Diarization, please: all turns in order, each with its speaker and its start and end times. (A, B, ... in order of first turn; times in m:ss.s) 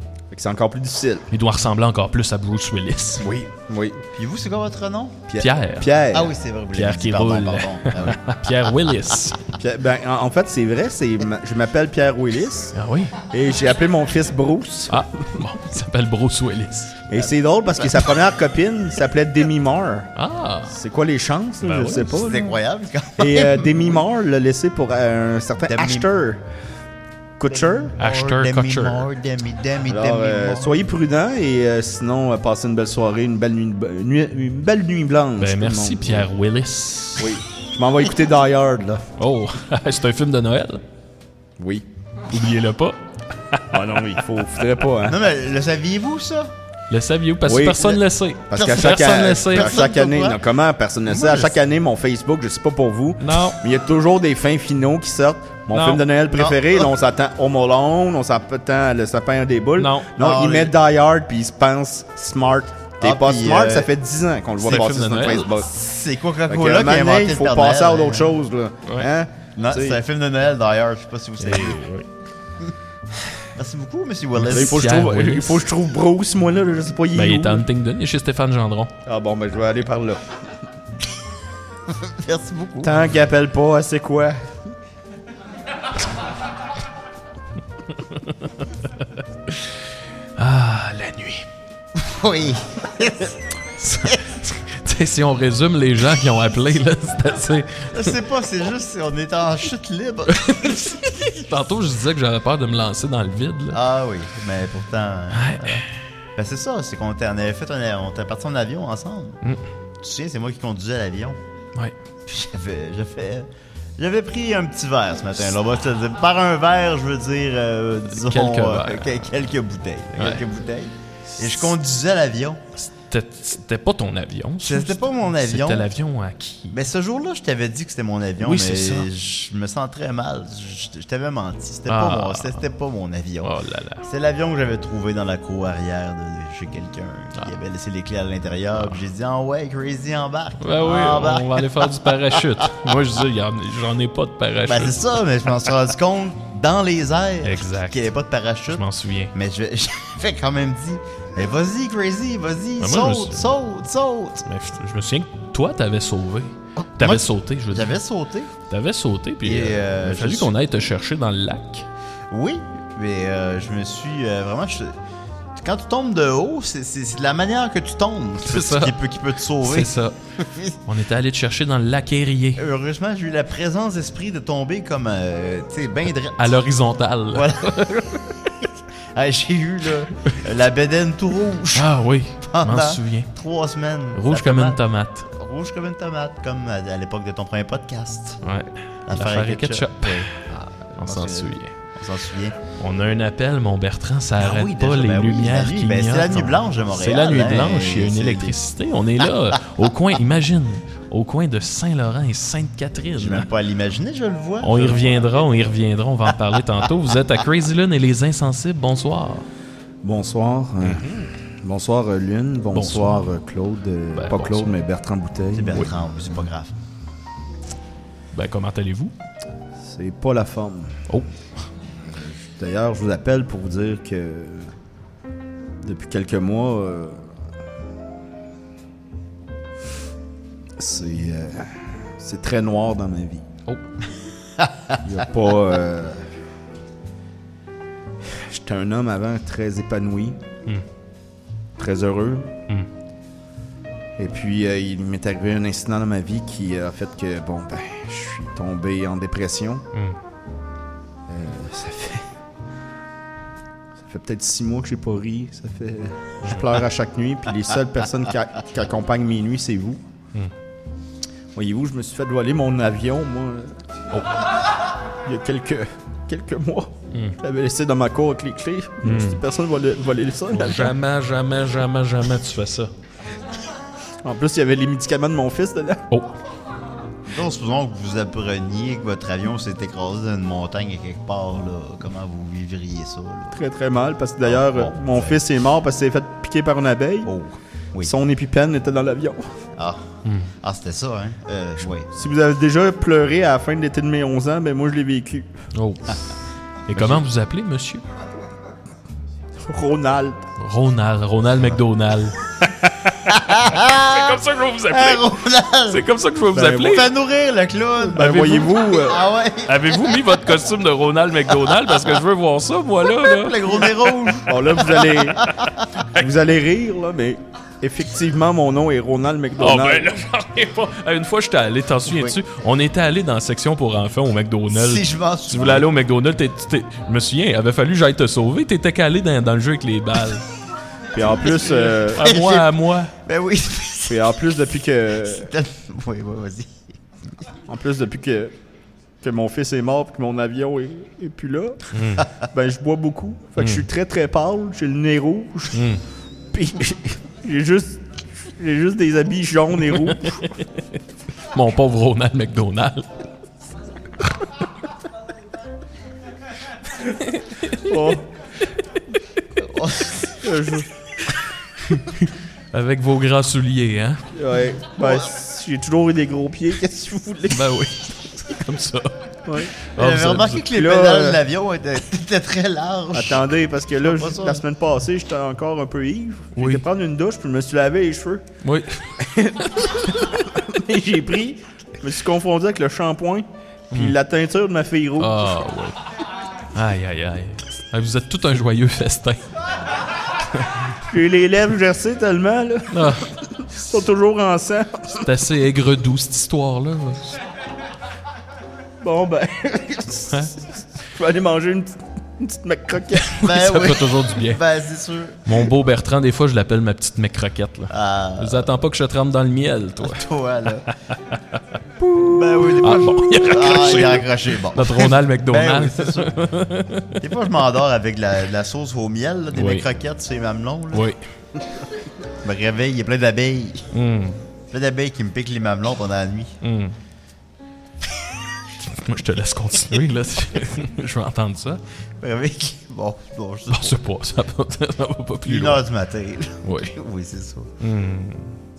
0:00.3-0:01.2 A
0:01.3-0:03.2 B
0:03.2-0:04.0 A
0:04.2-0:05.2 C
0:05.3-0:06.3 A
0:05.4-0:05.9 B
0:06.1-0:08.7 C
0:06.7-0:09.4 B
0:09.6-0:12.7 A
0:12.7-0:13.1 B
0:13.3-0:14.9 A
0:14.9-0:17.0 B
0:17.1-0:20.1 A
0:20.2-0:20.7 B
0:20.7-0:22.6 A
0:21.6-0:22.0 B
0:21.9-0:24.0 C
0:23.2-0:26.4 A
0:25.6-0:26.1 C
0:27.4-0:27.9 A
0:27.5-0:30.9 C
0:28.0-0:29.1 B
0:29.9-0:36.3 A
0:35.4-0:37.3 B
0:37.2-0:39.1 A
0:39.2-0:40.8 B
0:41.6-0:41.8 A
0:42.3-0:43.0 B
0:43.5-0:44.0 B
0:43.7-0:45.2 A
0:45.0-0:46.5 C
0:46.9-0:49.8 B
0:47.4-1:05.7 A
0:48.6-0:50.4 C
0:51.1-0:51.6 C
0:53.2-0:53.6 B
0:55.7-0:56.0 B
0:56.3-0:56.9 C
0:59.8-1:00.1 B
1:00.2-1:00.8 C
1:03.0-1:03.9 C
1:04.6-1:05.5 B
1:05.5-1:08.4 C
1:06.5-1:10.0 A
1:09.6-1:11.8 C
1:11.4-1:12.1 B
1:13.5-1:14.9 C
1:14.4-1:15.6 B
1:14.5-1:17.6 A
1:17.1-1:18.9 B
1:19.0-1:20.2 A
1:21.9-1:23.0 C
1:22.8-1:24.5 A
1:29.5-1:29.8 B
1:30.4-1:31.5 B
1:31.9-1:34.2 C
1:33.8-1:38.1 B
1:37.9-1:41.0 C
1:40.3-1:43.8 B
1:43.7-1:45.8 C
1:45.3-1:45.8 B
1:46.4-1:49.4 C
1:50.0-1:51.4 C
1:52.2-2:02.6 C
1:58.1-1:59.3 B
2:00.1-2:00.4 B
2:02.8-2:06.8 B
2:04.6-2:05.9 C
2:06.7-2:23.0 C
2:08.4-2:09.1 B
2:11.9-2:12.6 B
2:13.4-2:14.0 B
2:20.6-2:25.0 B
2:24.6-2:34.4 C
2:27.4-2:28.1 B
2:28.7-2:29.3 B
2:32.8-2:33.5 B
2:34.4-2:37.9 B
2:36.8-2:38.5 C
2:38.7-2:41.8 B
2:39.4-2:40.5 C
2:42.3-2:45.0 C
2:45.5-2:50.7 C
2:48.4-2:49.0 B
2:49.6-2:50.1 B
2:50.8-2:52.6 B
2:52.6-2:56.6 C
2:56.4-2:58.0 B
2:57.3-3:01.9 C
3:01.7-3:03.3 B
3:02.4-3:04.8 C
3:04.1-3:05.3 B
3:05.4-3:08.4 C
3:08.4-3:10.4 B
3:09.0-3:12.6 C
3:11.0-3:11.7 B
3:12.8-3:23.5 B
3:14.4-3:18.6 C
3:23.1-3:25.5 C
3:24.6-3:29.4 B
3:30.0-3:31.0 A
3:30.8-3:31.3 B
3:31.6-3:35.9 A
3:32.7-3:33.3 B
3:34.1-3:34.7 B
3:35.5-3:36.7 C
3:38.3-3:39.1 B
3:39.8-3:41.0 A
3:42.1-3:44.7 A
3:45.8-3:47.2 A
3:50.8-3:53.4 A
3:54.6-3:54.9 C
3:55.0-3:56.2 A
3:58.2-4:00.4 A
4:01.8-4:02.5 A
4:04.2-4:09.8 A
4:11.3-4:12.2 A
4:14.0-4:20.0 A
4:21.5-4:23.8 A
4:25.2-4:30.9 A
4:29.0-4:29.4 B
4:30.5-4:32.9 B
4:34.2-4:36.0 A
4:37.2-4:43.6 C
4:43.5-4:47.3 A
4:44.4-4:45.4 C
4:47.2-4:48.1 C
4:48.0-4:49.4 A
4:49.8-4:50.0 C
4:50.2-4:50.5 B
4:50.6-4:52.1 C
4:52.1-4:55.5 A
4:55.7-4:56.2 B
4:56.9-4:58.0 B
4:56.9-4:57.2 C
4:59.6-5:00.4 A
5:00.6-5:02.4 B
5:03.3-5:06.0 C
5:03.8-5:05.4 B
5:05.9-5:07.1 B
5:06.5-5:07.0 A
5:06.6-5:10.0 C
5:08.0-5:09.2 A
5:08.2-5:08.7 B
5:09.6-5:14.3 B
5:11.7-5:12.0 C
5:13.2-5:15.8 C
5:14.4-5:15.4 A
5:16.0-5:16.2 B
5:16.2-5:20.1 A
5:19.6-5:30.4 B
5:22.0-5:22.4 C
5:24.7-5:25.9 C
5:31.1-5:32.3 A
5:31.6-5:33.1 B
5:32.2-5:34.3 C
5:34.1-5:35.5 A
5:35.3-5:36.9 C
5:37.7-5:38.5 A
5:39.2-5:41.9 A
5:41.9-5:42.2 B
5:42.4-5:45.8 A
5:43.6-5:43.8 B
5:45.7-5:46.0 B
5:46.5-5:50.5 A
5:50.1-5:50.7 B
5:51.5-5:53.1 B
5:57.3-5:57.9 B
5:57.8-5:58.2 A
5:59.6-6:00.4 C
6:00.4-6:00.9 A
6:01.8-6:04.2 B
6:04.3-6:07.7 A
6:07.5-6:09.2 B
6:09.4-6:09.7 A
6:09.8-6:10.6 B
6:10.0-6:14.6 C
6:10.7-6:11.4 A
6:13.1-6:18.4 A
6:16.6-6:16.8 B
6:18.6-6:19.1 B
6:19.2-6:25.5 A
6:25.2-6:26.0 B
6:26.7-6:29.4 B
6:30.5-6:30.8 B
6:31.1-6:35.3 A
6:32.9-6:33.9 B
6:35.2-6:37.4 B
6:39.0-6:43.4 A
6:43.2-6:44.6 B
6:43.4-6:45.7 C
6:45.4-6:50.2 B
6:47.9-6:48.7 C
6:50.0-6:50.9 C
6:52.1-6:56.4 C
6:52.8-6:57.2 B
6:57.2-7:01.1 C
6:59.5-6:59.9 B
7:00.9-7:01.2 B
7:02.4-7:03.9 C
7:03.9-7:04.4 B
7:04.7-7:06.6 C
7:06.6-7:06.9 B
7:08.9-7:11.8 B
7:12.2-7:14.0 C
7:13.7-7:15.8 B
7:15.4-7:17.7 C
7:16.6-7:17.0 B
7:17.8-7:18.5 B